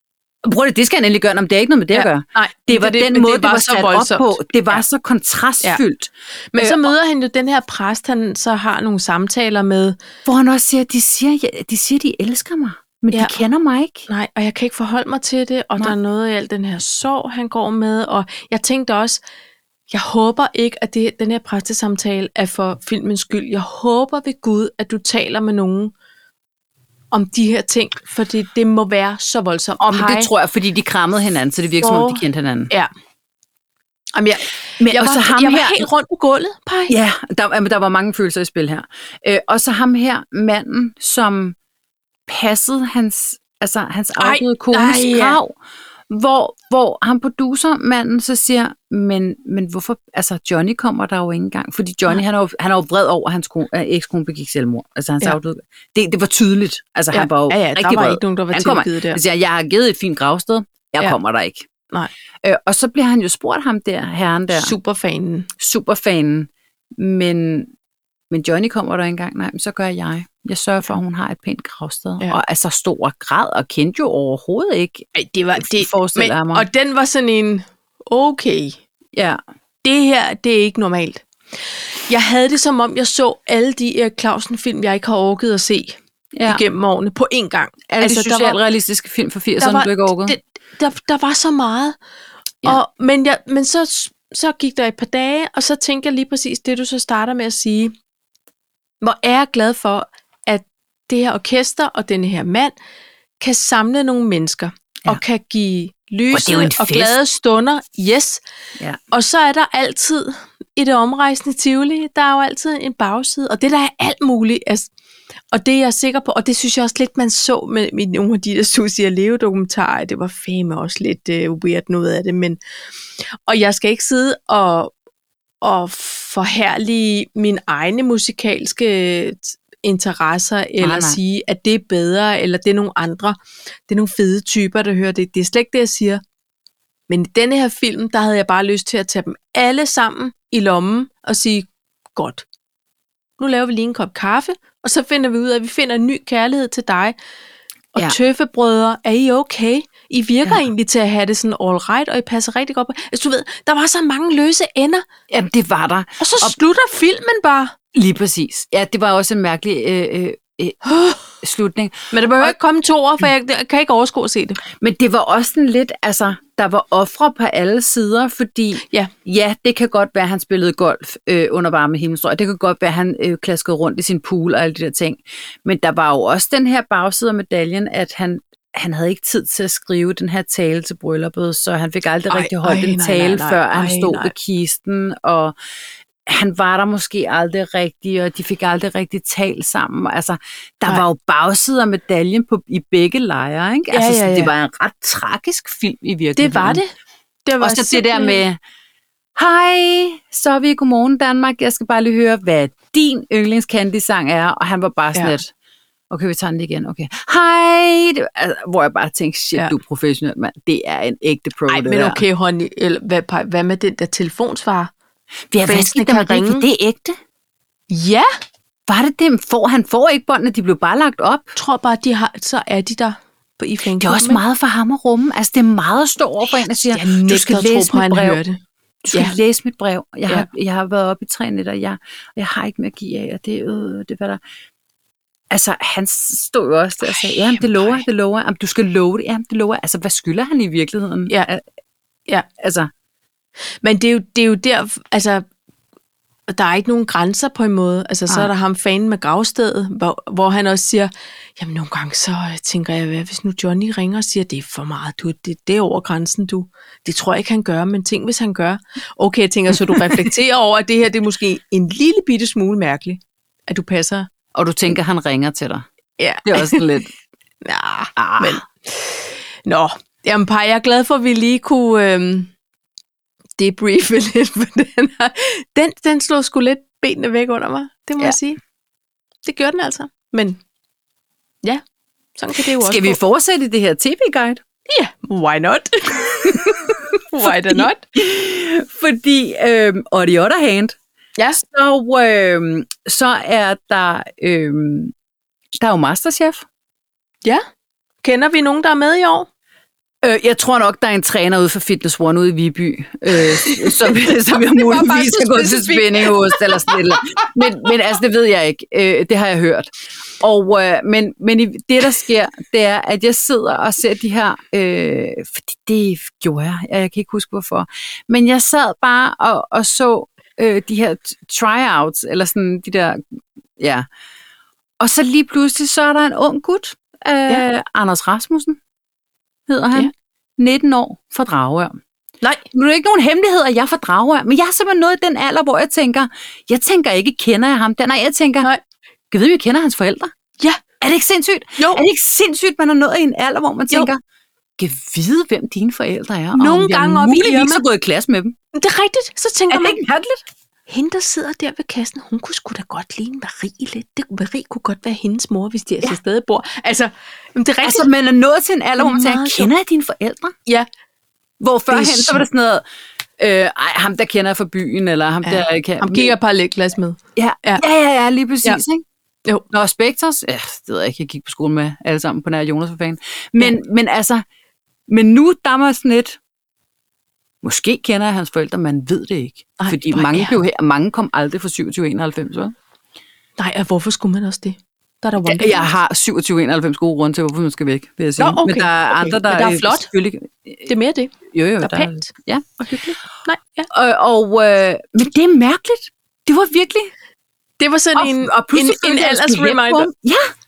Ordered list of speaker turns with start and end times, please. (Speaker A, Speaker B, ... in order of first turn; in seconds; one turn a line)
Speaker A: 0.4-6.9
Speaker B: 1.9-4.8
Speaker B: 6.5-10.0
Speaker A: 10.2-14.1
Speaker B: 13.1-13.4
Speaker B: 14.1-19.2
Speaker B: 19.9-25.9
Speaker B: 27.1-30.3
Speaker A: 29.8-32.7
Speaker B: 31.8-32.9
Speaker B: 34.1-36.9
Speaker A: 34.8-35.9
Speaker A: 36.9-41.6
Speaker A: 42.3-45.5
Speaker B: 44.2-45.4
Speaker A: 46.1-61.7
Speaker B: 57.1-59.2
Speaker A: 62.4-64.7
Speaker B: 64.5-65.5
Speaker A: 65.6-67.7
Speaker A: 68.3-76.7
Speaker B: 75.2-78.8
Speaker A: 79.1-79.4
Speaker B: 79.8-81.3
Speaker B: 82.1-88.6
Speaker A: 86.3-86.6
Speaker A: 87.9-90.4
Speaker B: 89.6-92.0
Speaker B: 92.6-97.9
Speaker B: 99.0-102.7
Speaker B: 103.4-108.4
Speaker A: 106.3-107.2
Speaker B: 109.1-114.9
Speaker B: 115.5-122.6
Speaker B: 123.2-124.9
Speaker B: 125.6-133.4
Speaker A: 130.8-131.2
Speaker B: 133.9-136.2
Speaker B: 137.1-142.4
Speaker B: 143.4-147.2
Speaker B: 147.9-155.1
Speaker A: 155.3-156.6
Speaker B: 156.2-157.8
Speaker A: 157.9-160.8
Speaker B: 160.8-161.2
Speaker A: 161.4-162.6
Speaker B: 162.1-164.6
Speaker A: 164.8-185.5
Speaker B: 182.3-184.3
Speaker A: 186.3-196.8
Speaker B: 193.9-194.5
Speaker B: 196.4-196.9
Speaker B: 197.4-198.4
Speaker A: 197.6-198.6
Speaker A: 199.4-205.5
Speaker A: 206.1-212.2
Speaker B: 211.7-214.9
Speaker A: 215.5-217.2
Speaker B: 215.7-216.7
Speaker B: 217.9-218.3
Speaker A: 218.9-221.5
Speaker B: 221.6-224.4
Speaker A: 224.0-228.4
Speaker B: 226.8-228.6
Speaker A: 229.0-234.4
Speaker A: 235.5-241.6
Speaker B: 237.0-238.0
Speaker A: 242.6-242.9
Speaker B: 243.8-245.4
Speaker B: 246.5-264.3
Speaker A: 264.6-265.9
Speaker B: 266.2-266.9
Speaker A: 266.4-267.1
Speaker B: 267.6-272.5
Speaker A: 268.2-268.6
Speaker B: 273.6-278.6
Speaker B: 279.4-280.6
Speaker B: 282.4-283.2
Speaker A: 282.8-284.6
Speaker B: 284.9-288.0
Speaker A: 287.4-291.0
Speaker B: 291.4-291.6
Speaker A: 291.6-295.1
Speaker A: 295.8-296.6
Speaker B: 298.2-299.5
Speaker A: 300.2-323.2
Speaker B: 303.4-307.8
Speaker A: 323.8-324.1
Speaker A: 325.0-328.8
Speaker A: 329.7-332.0
Speaker A: 332.7-338.7
Speaker A: 339.3-340.3
Speaker A: 341.0-344.2
Speaker B: 341.8-342.0
Speaker A: 344.8-348.6
Speaker B: 346.5-347.8
Speaker B: 348.7-350.0
Speaker A: 349.7-350.4
Speaker B: 350.9-358.1
Speaker A: 357.8-360.6
Speaker B: 359.0-359.7
Speaker A: 361.6-362.8
Speaker B: 361.9-362.4
Speaker A: 363.4-366.3
Speaker B: 365.4-367.8
Speaker A: 367.4-369.0
Speaker A: 369.7-374.4
Speaker A: 375.1-376.4
Speaker A: 377.6-382.7
Speaker B: 379.8-380.6
Speaker B: 383.6-385.9
Speaker A: 385.4-390.9
Speaker B: 388.4-390.1
Speaker B: 390.9-392.3
Speaker A: 391.5-393.0
Speaker B: 392.8-393.9
Speaker A: 393.9-397.1
Speaker B: 397.8-400.1
Speaker A: 398.1-400.5